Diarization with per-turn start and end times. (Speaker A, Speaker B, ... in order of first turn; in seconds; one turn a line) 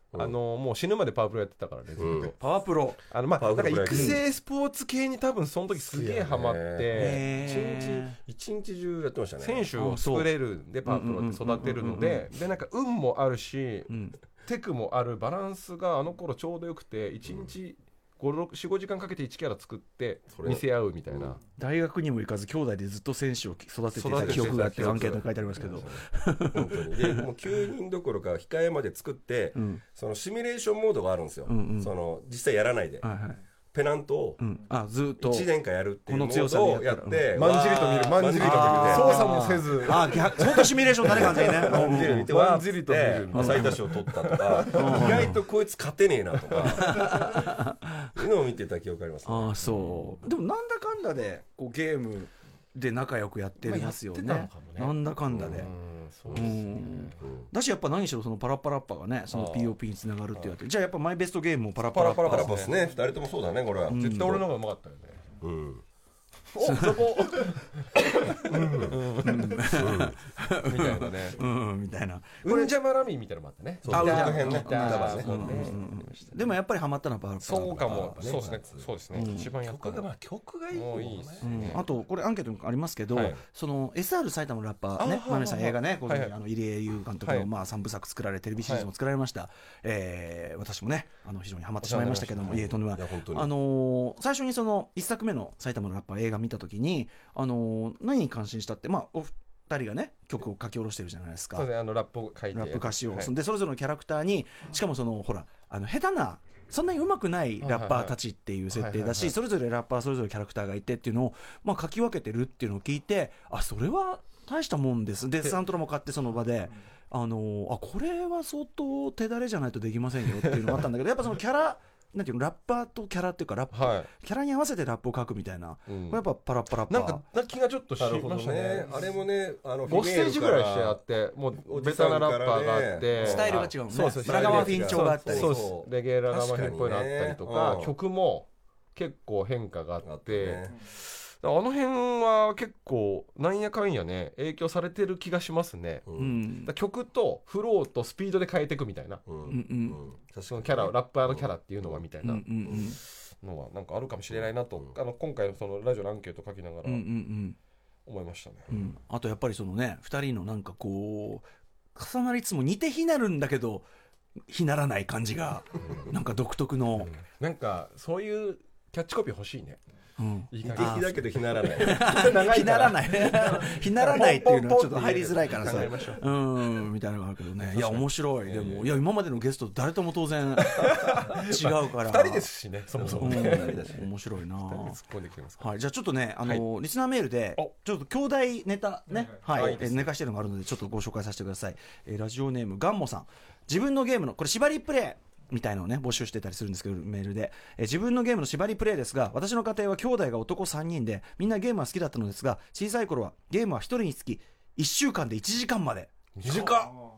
Speaker A: 0.2-2.4
Speaker B: 2.0-2.3
Speaker C: 2.4-3.0
Speaker A: 3.1-7.2
Speaker B: 3.4-4.2
Speaker C: 3.9-4.2
Speaker B: 5.8-9.7
Speaker C: 6.9-8.2
Speaker A: 9.4-21.4
Speaker C: 9.8-10.3
Speaker C: 10.8-12.3
Speaker C: 13.9-14.2
Speaker B: 17.3-17.5
Speaker B: 20.3-21.4
Speaker C: 21.6-27.3
Speaker A: 23.9-25.2
Speaker B: 24.1-33.1
Speaker C: 29.6-29.8
Speaker C: 31.5-31.9
Speaker C: 33.0-33.4
Speaker B: 33.7-34.4
Speaker C: 34.4-35.5
Speaker B: 35.2-39.4
Speaker C: 36.0-37.3
Speaker A: 37.3-45.4
Speaker C: 38.4-42.3
Speaker B: 40.0-47.5
Speaker C: 43.3-43.8
Speaker C: 44.7-45.4
Speaker A: 46.5-47.3
Speaker C: 46.7-48.1
Speaker B: 48.1-50.1
Speaker C: 49.2-55.7
Speaker A: 53.6-57.2
Speaker B: 55.3-55.7
Speaker C: 56.3-62.6
Speaker B: 57.2-57.5
Speaker A: 59.3-59.8
Speaker A: 61.9-62.8
Speaker B: 62.2-64.4
Speaker C: 63.9-64.4
Speaker A: 63.9-65.3
Speaker B: 65.4-65.8
Speaker A: 66.5-69.9
Speaker C: 66.6-67.1
Speaker B: 68.4-69.0
Speaker C: 69.2-72.7
Speaker B: 69.7-70.2
Speaker A: 70.6-71.4
Speaker A: 72.4-76.5
Speaker B: 73.8-75.8
Speaker C: 73.9-78.3
Speaker A: 77.4-80.1
Speaker B: 77.7-81.8
Speaker C: 79.1-79.5
Speaker A: 80.7-81.8
Speaker C: 81.4-101.7
Speaker A: 85.0-86.3
Speaker A: 87.2-87.5
Speaker A: 91.8-92.6
Speaker B: 91.9-93.5
Speaker A: 101.6-103.3
Speaker C: 102.5-127.2
Speaker A: 107.6-108.2
Speaker A: 108.7-109.3
Speaker A: 123.7-124.1
Speaker A: 125.9-126.2
Speaker A: 126.9-129.1
Speaker B: 128.0-131.0
Speaker A: 129.9-146.1
Speaker B: 131.6-137.9
Speaker C: 133.2-135.6
Speaker B: 140.0-140.7
Speaker B: 146.1-146.3
Speaker C: 146.2-146.7
Speaker A: 146.7-149.2
Speaker B: 149.3-152.0
Speaker C: 149.5-150.0
Speaker A: 150.5-157.1
Speaker C: 152.2-153.0
Speaker B: 154.3-154.9
Speaker C: 156.8-157.6
Speaker A: 158.1-158.7
Speaker C: 158.7-163.9
Speaker C: 164.5-167.1
Speaker A: 167.1-169.8
Speaker C: 170.2-171.2
Speaker A: 170.5-176.2
Speaker B: 170.6-172.1
Speaker C: 171.7-182.5
Speaker A: 177.6-178.9
Speaker A: 180.8-184.1
Speaker C: 183.0-185.0
Speaker B: 183.3-183.7
Speaker A: 184.6-185.7
Speaker C: 185.6-206.9
Speaker A: 189.5-190.1
Speaker A: 206.4-206.9